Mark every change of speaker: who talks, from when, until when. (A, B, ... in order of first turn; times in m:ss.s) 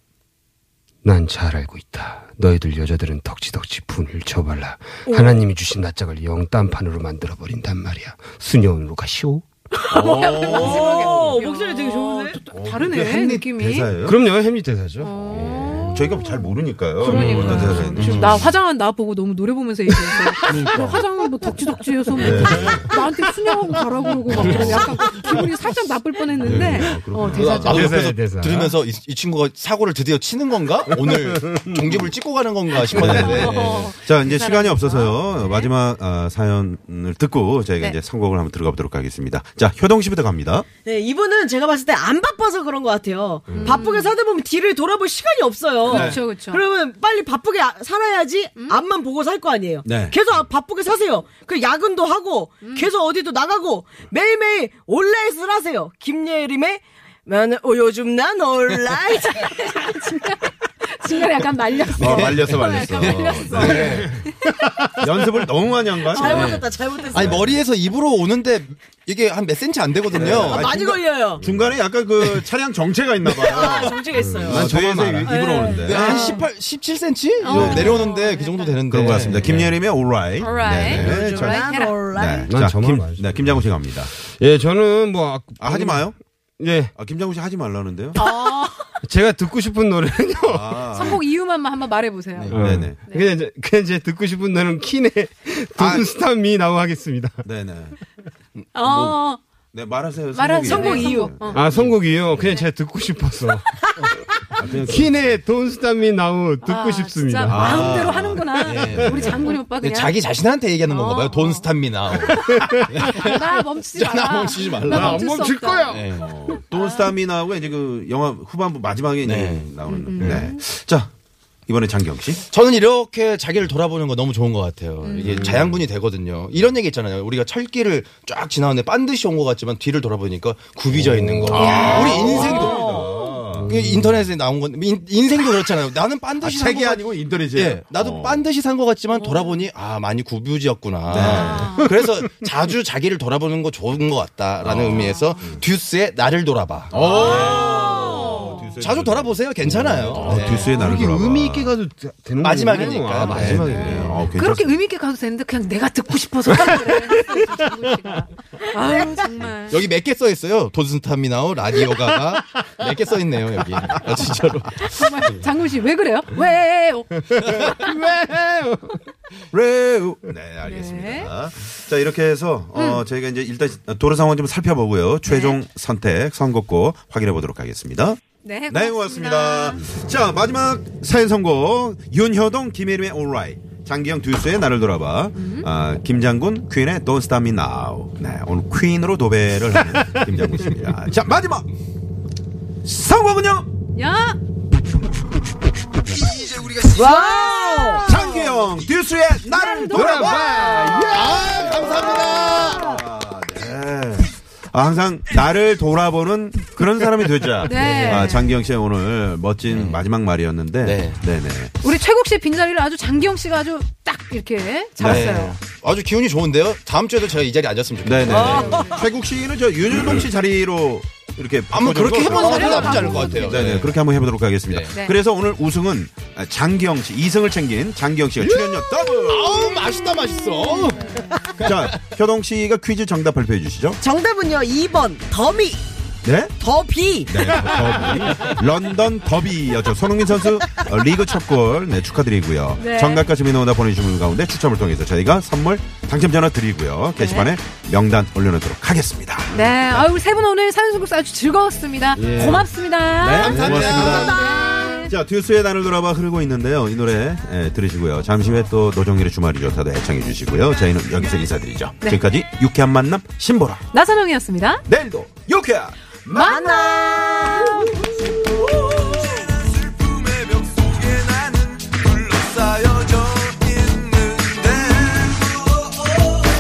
0:01.0-0:09.4 A
0:09.8-0:13.9 B
0:09.9-0:11.2 C
0:10.0-0:12.4 D
0:12.5-0:14.2 C
0:14.0-0:16.0 A
0:15.0-0:27.8 B
0:15.3-0:18.4 C
0:17.1-0:17.8 A
0:17.1-0:18.5 E
0:20.1-0:20.7 A
0:20.5-0:21.0 E
0:22.2-0:22.9 C
0:22.2-0:23.2 A
0:24.3-0:25.4 A
0:24.3-0:25.0 C
0:24.4-0:24.8 E
0:26.4-0:27.9 C
0:26.4-0:34.0 E
0:27.3-0:28.8 A
0:32.9-0:35.7 B
0:32.9-0:40.7 C
0:40.8-1:00.4 D
0:43.5-0:43.8 C
0:43.5-0:44.1 B
0:45.8-0:46.6 B
0:45.9-0:46.2 C
0:48.6-0:48.8 B
0:49.8-0:50.2 C
0:52.6-0:52.9 B
0:59.4-1:04.3 B
1:02.0-1:04.2 E
1:02.0-1:04.0 C
1:04.4-1:05.4 A
1:05.0-1:06.6 C
1:06.0-1:07.6 D
1:06.2-1:10.8 E
1:07.2-1:07.6 C
1:10.1-1:16.4 C
1:10.2-1:11.5 D
1:12.2-1:12.5 E
1:13.4-1:14.7 D
1:14.4-1:15.5 A
1:15.2-1:16.4 D
1:15.8-1:19.8 E
1:17.4-1:18.8 B
1:17.5-1:18.0 C
1:18.9-1:24.1 C
1:20.4-1:22.0 B
1:20.8-1:21.2 E
1:21.0-1:22.6 D
1:22.5-1:26.1 A
1:25.6-1:26.2 C
1:26.6-1:26.9 A
1:27.0-1:28.2 C
1:28.2-1:28.9 B
1:29.0-1:30.8 A
1:30.5-1:31.2 C
1:30.9-1:32.6 B
1:32.5-1:37.5 A
1:32.5-1:33.0 C
1:35.8-1:36.1 C
1:37.4-1:38.0 C
1:38.7-1:39.4 B
1:38.8-1:39.2 E
1:39.7-1:42.5 C
1:40.3-1:41.6 B
1:40.6-1:41.3 D
1:41.5-1:48.2 A
1:44.6-1:45.4 C
1:46.6-1:50.2 B
1:47.5-1:49.3 C
1:48.5-1:55.3 E
1:50.9-1:51.7 B
1:52.2-1:53.2 A
1:52.9-1:57.1 B
1:54.9-1:56.1 A
1:55.9-1:56.3 E
1:56.1-2:01.1 C
1:59.2-2:00.4 E
1:59.9-2:00.6 B
2:00.2-2:00.5 A
2:01.7-2:02.4 C
2:02.5-2:12.9 E
2:05.0-2:05.6 B
2:05.2-2:05.7 C
2:05.3-2:05.6 A
2:11.5-2:13.8 C
2:11.5-2:13.2 B
2:12.5-2:13.4 D
2:13.5-2:14.3 A
2:13.7-2:30.8 E
2:16.4-2:18.5 C
2:19.2-2:19.6 B
2:21.1-2:21.8 C
2:21.2-2:21.9 B
2:24.6-2:25.6 C
2:26.9-2:31.7 C
2:27.0-2:28.7 B
2:30.2-2:30.8 B
2:30.2-2:34.3 A
2:32.4-2:34.2 E
2:33.3-2:34.8 C
2:34.2-2:39.8 B
2:36.7-2:37.3 A
2:39.7-2:44.9 E
2:44.7-2:47.9 B
2:47.3-2:49.0 A
2:49.5-3:11.7 C
2:50.6-2:51.3 B
2:52.8-2:53.0 B
2:55.3-2:55.6 B
2:58.4-2:59.9 B
3:05.4-3:05.7 B
3:12.8-3:13.7 C
3:13.9-3:14.4 B
3:16.6-3:16.9 E
3:16.9-3:18.1 D
3:18.0-3:31.8 C
3:19.5-3:20.3 B
3:19.8-3:22.4 A
3:21.1-3:22.8 E
3:22.7-3:23.0 D
3:27.6-3:28.7 B
3:27.8-3:28.3 E
3:29.6-3:30.1 E
3:30.8-3:31.2 E
3:31.8-3:35.6 B
3:35.0-3:39.0 E
3:35.0-3:35.4 C
3:38.0-3:49.8 C
3:38.2-3:39.1 B
3:39.9-3:40.3 E
3:41.7-3:44.1 E
3:42.3-3:43.6 B
3:44.7-3:45.0 E
3:48.4-3:52.0 E
3:51.3-3:51.6 D
3:51.6-3:54.0 C
3:54.0-3:55.8 D
3:56.2-3:56.5 C
3:56.6-3:58.2 D
3:57.3-4:10.1 C
4:02.8-4:03.3 B
4:07.2-4:07.5 B
4:09.5-4:15.1 B
4:12.2-4:12.7 A
4:12.4-4:12.6 C
4:13.2-4:14.4 C
4:13.3-4:14.8 E
4:15.0-4:23.8 C
4:23.9-4:24.8 B
4:24.9-4:26.8 C
4:26.3-4:27.9 B
4:26.4-4:29.4 D
4:28.3-4:36.4 C